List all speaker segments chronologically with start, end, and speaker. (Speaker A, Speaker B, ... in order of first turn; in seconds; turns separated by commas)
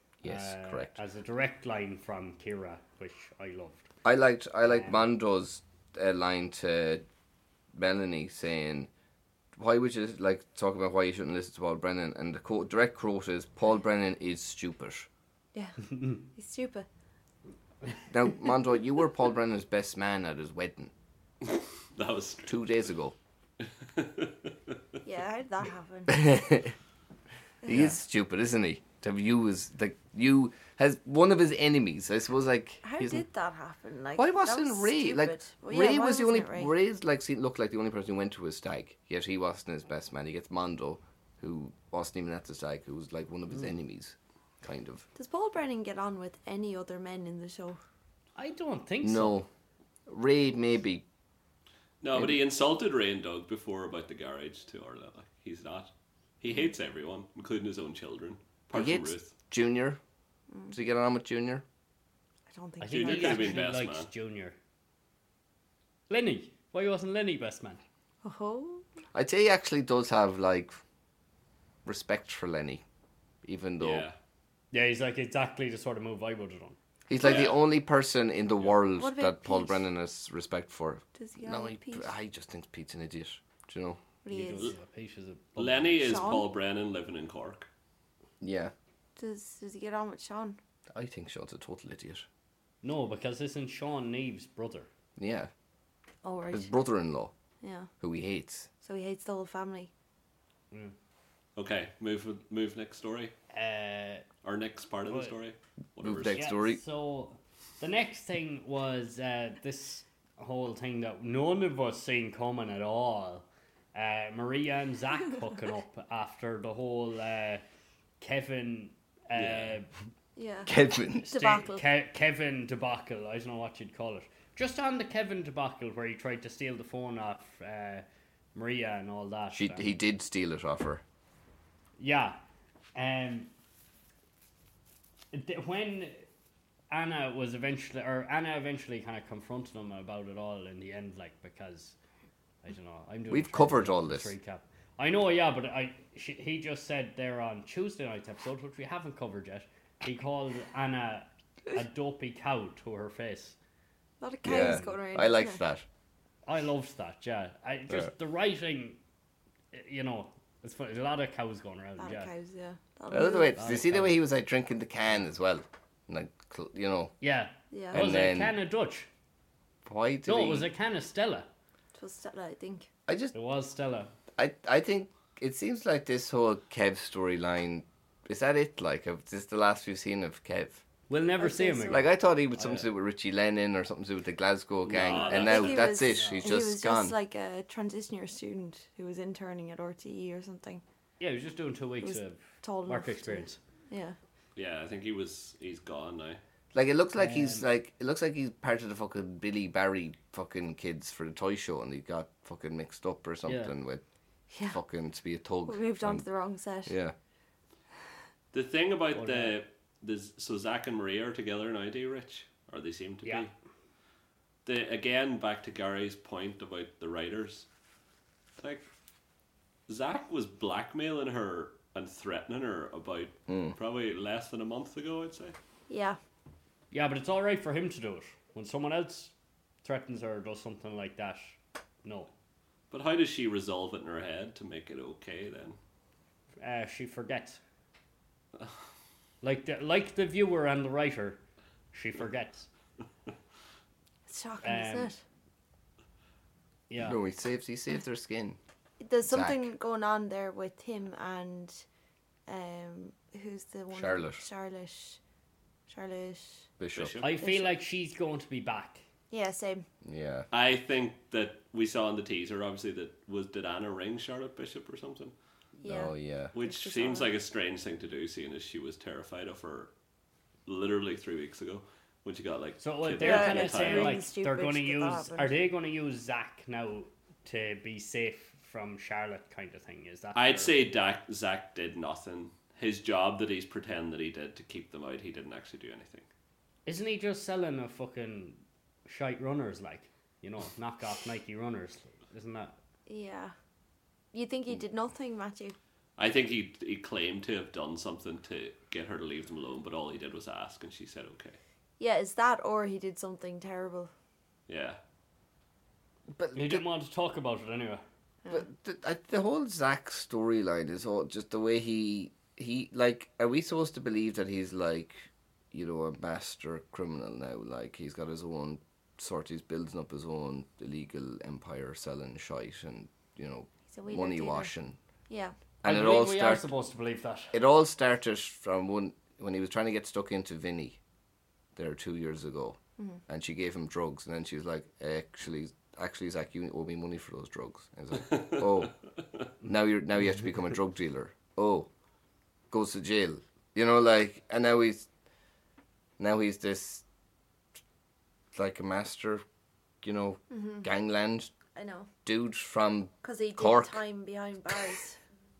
Speaker A: 0.2-1.0, Speaker B: 0.2-3.9, Speaker A: 4.0-7.0, Speaker B: 4.7-5.1, Speaker A: 7.7-8.9, Speaker A: 9.5-15.1, Speaker C: 15.5-16.9, Speaker A: 18.1-20.9, Speaker D: 21.4-22.6, Speaker A: 22.5-23.1, Speaker D: 23.6-24.8, Speaker C: 25.0-26.4, Speaker A: 26.1-26.8, Speaker C: 27.6-27.9, Speaker A: 27.6-33.2, Speaker C: 32.8-36.7, Speaker A: 34.1-45.0, Speaker C: 45.1-47.8, Speaker B: 48.4-49.4, Speaker A: 49.0-49.5, Speaker A: 50.1-51.0, Speaker D: 52.0-59.3, Speaker A: 58.7-60.0, Speaker C: 60.5-60.8, Speaker A: 60.7-61.6, Speaker C: 62.5-63.6, Speaker B: 62.8-64.5, Speaker D: 62.9-64.1, Speaker B: 66.1-67.8, Speaker C: 68.2-68.8, Speaker A: 69.1-70.8, Speaker A: 71.8-72.8, Speaker A: 73.4-74.0, Speaker D: 73.8-74.2, Speaker B: 74.7-76.8, Speaker A: 77.1-84.0, Speaker D: 77.2-77.6, Speaker C: 78.9-79.8, Speaker C: 81.2-82.1, Speaker C: 84.2-84.7, Speaker B: 84.3-86.3, Speaker D: 85.6-87.7, Speaker C: 86.0-86.5, Speaker A: 88.4-88.7, Speaker C: 89.2-90.6, Speaker A: 90.9-92.2, Speaker B: 92.8-94.9, Speaker A: 95.2-95.5, Speaker C: 96.2-96.7, Speaker A: 96.5-97.3, Speaker C: 97.6-97.9, Speaker A: 98.0-98.7, Speaker C: 98.8-99.9, Speaker D: 101.5-103.3, Speaker B: 103.5-104.2, Speaker D: 104.4-106.5, Speaker B: 105.1-105.3, Speaker A: 106.0-106.8, Speaker B: 106.3-117.6, Speaker B: 118.2-119.9, Speaker D: 119.3-119.8, Speaker C: 120.3-121.8, Speaker A: 120.7-121.3, Speaker B: 121.3-129.9, Speaker A: 129.5-131.0, Speaker B: 132.0-132.4, Speaker B: 132.9-133.5, Speaker B: 135.3-136.2, Speaker B: 136.9-141.9, Speaker B: 142.6-153.6, Speaker A: 143.3-144.3, Speaker C: 154.2-155.6, Speaker A: 154.4-155.8, Speaker B: 156.4-159.0, Speaker B: 159.7-162.3, Speaker C: 162.0-163.6, Speaker A: 163.1-167.1, Speaker B: 163.6-164.2, Speaker B: 167.2-169.1, Speaker C: 167.7-168.0, Speaker A: 167.9-168.5, Speaker A: 169.8-170.7, Speaker B: 170.2-171.5, Speaker C: 171.9-172.9, Speaker A: 173.1-173.3, Speaker B: 173.3-174.1, Speaker A: 174.4-180.8, Speaker B: 181.1-182.9, Speaker C: 181.4-182.1, Speaker A: 181.9-187.2, Speaker D: 184.8-185.9, Speaker C: 185.2-190.8, Speaker B: 185.9-186.6, Speaker B: 191.2-193.6, Speaker C: 192.0-194.2, Speaker D: 194.5-196.4, Speaker A: 196.7-204.0, Speaker B: 197.2-197.6, Speaker B: 203.4-203.7, Speaker C: 204.5-204.8, Speaker A: 204.7-206.2, Speaker C: 205.7-206.9, Speaker A: 206.8-207.1, Speaker D: 208.5-213.5, Speaker B: 209.1-209.6, Speaker D: 214.6-217.7, Speaker D: 218.6-218.9, Speaker D: 219.9-225.5, Speaker A: 223.5-223.7, Speaker C: 225.9-226.2, Speaker B: 226.9-232.3, Speaker D: 232.9-235.8, Speaker B: 236.6-237.6, Speaker B: 239.4-241.4, Speaker B: 241.9-242.7, Speaker C: 244.3-245.2, Speaker B: 244.6-245.1, Speaker B: 246.9-247.2, Speaker A: 247.0-248.6, Speaker C: 249.0-251.8, Speaker A: 249.2-249.7, Speaker C: 252.5-255.2, Speaker A: 253.9-254.4, Speaker C: 255.9-256.7, Speaker A: 256.8-257.2, Speaker D: 256.9-257.3, Speaker B: 257.2-259.0, Speaker C: 257.4-257.7, Speaker C: 259.3-259.9, Speaker A: 260.0-260.5, Speaker D: 260.5-265.3, Speaker C: 265.8-267.3, Speaker A: 265.8-266.5, Speaker D: 266.5-269.9, Speaker D: 270.6-274.2, Speaker B: 272.8-280.8, Speaker C: 273.2-275.5, Speaker D: 280.3-286.3, Speaker B: 286.9-292.8, Speaker C: 293.1-293.5, Speaker C: 294.3-295.8, Speaker D: 296.2-301.6, Speaker C: 302.0-304.1, Speaker D: 304.7-305.0, Speaker A: 306.3-306.8, Speaker B: 306.5-308.0, Speaker A: 308.5-325.0, Speaker C: 323.9-324.7, Speaker C: 325.3-325.6, Speaker A: 325.8-326.7, Speaker B: 325.8-327.6, Speaker A: 327.5-331.0, Speaker A: 331.8-338.9, Speaker D: 338.1-338.9, Speaker A: 339.6-341.9, Speaker A: 342.7-345.1, Speaker A: 346.2-347.0, Speaker A: 348.5-349.4, Speaker A: 350.0-351.5, Speaker C: 350.5-350.9, Speaker C: 351.7-352.1, Speaker A: 352.2-354.0, Speaker C: 353.2-355.2